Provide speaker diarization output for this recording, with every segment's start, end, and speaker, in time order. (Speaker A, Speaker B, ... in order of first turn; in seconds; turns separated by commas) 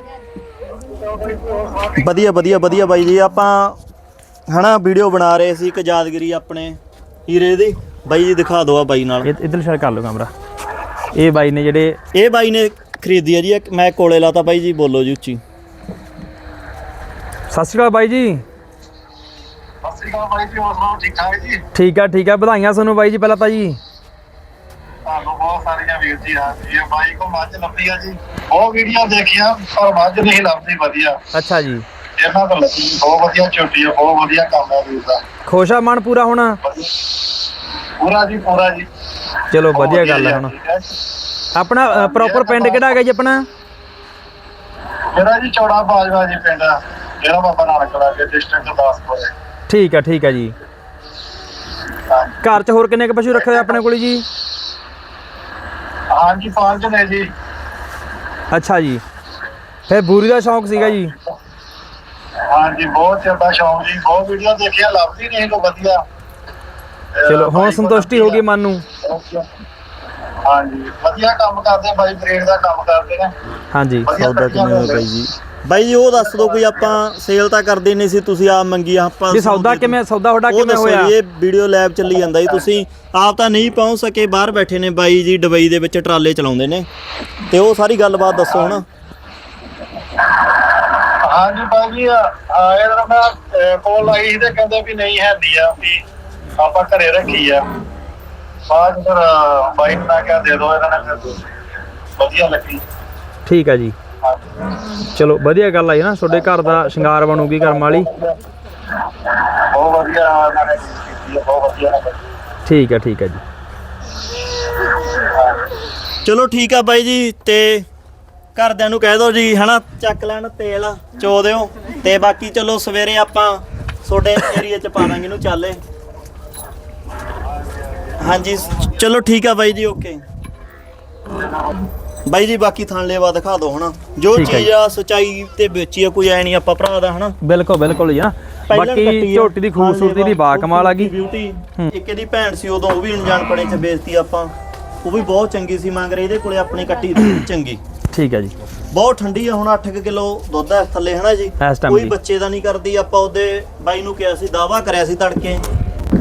Speaker A: 1.0-2.0, Speaker B: 1.9-3.8, Speaker B: 4.5-9.3, Speaker C: 9.2-10.3, Speaker C: 11.1-12.0, Speaker B: 12.1-15.4, Speaker C: 17.5-18.4, Speaker A: 19.8-21.6, Speaker C: 21.7-23.8, Speaker A: 25.0-31.2, Speaker C: 31.3-31.8, Speaker A: 32.2-35.2, Speaker C: 35.4-36.6, Speaker A: 36.6-37.1, Speaker A: 38.0-38.9, Speaker C: 39.5-40.5, Speaker A: 39.7-41.0, Speaker C: 41.5-43.5, Speaker A: 41.9-42.9, Speaker A: 45.1-49.3, Speaker C: 49.7-50.5, Speaker A: 52.1-52.4, Speaker C: 52.4-54.2, Speaker A: 56.1-57.3, Speaker C: 58.5-59.0, Speaker C: 59.9-61.1, Speaker A: 62.5-66.0, Speaker A: 67.2-68.4, Speaker C: 67.2-68.8, Speaker A: 69.0-69.5, Speaker A: 70.4-73.3, Speaker C: 73.7-74.2, Speaker A: 74.0-75.1, Speaker B: 74.1-86.9, Speaker C: 79.3-81.1, Speaker B: 87.5-88.8, Speaker A: 90.4-96.0, Speaker A: 96.6-97.8, Speaker A: 98.7-101.5, Speaker A: 102.2-102.8, Speaker C: 103.5-103.9, Speaker A: 104.2-104.7, Speaker C: 105.0-108.1, Speaker A: 107.8-108.4, Speaker A: 109.1-112.2, Speaker C: 112.6-113.4, Speaker A: 115.2-115.7, Speaker B: 116.2-117.9, Speaker B: 118.5-125.8, Speaker A: 127.8-128.1, Speaker B: 128.2-130.2, Speaker A: 131.4-131.8, Speaker B: 132.3-137.3, Speaker C: 134.3-134.7, Speaker C: 137.4-141.1, Speaker B: 138.7-144.5, Speaker B: 145.0-147.8, Speaker C: 148.1-148.5, Speaker B: 148.9-155.6, Speaker C: 151.6-152.1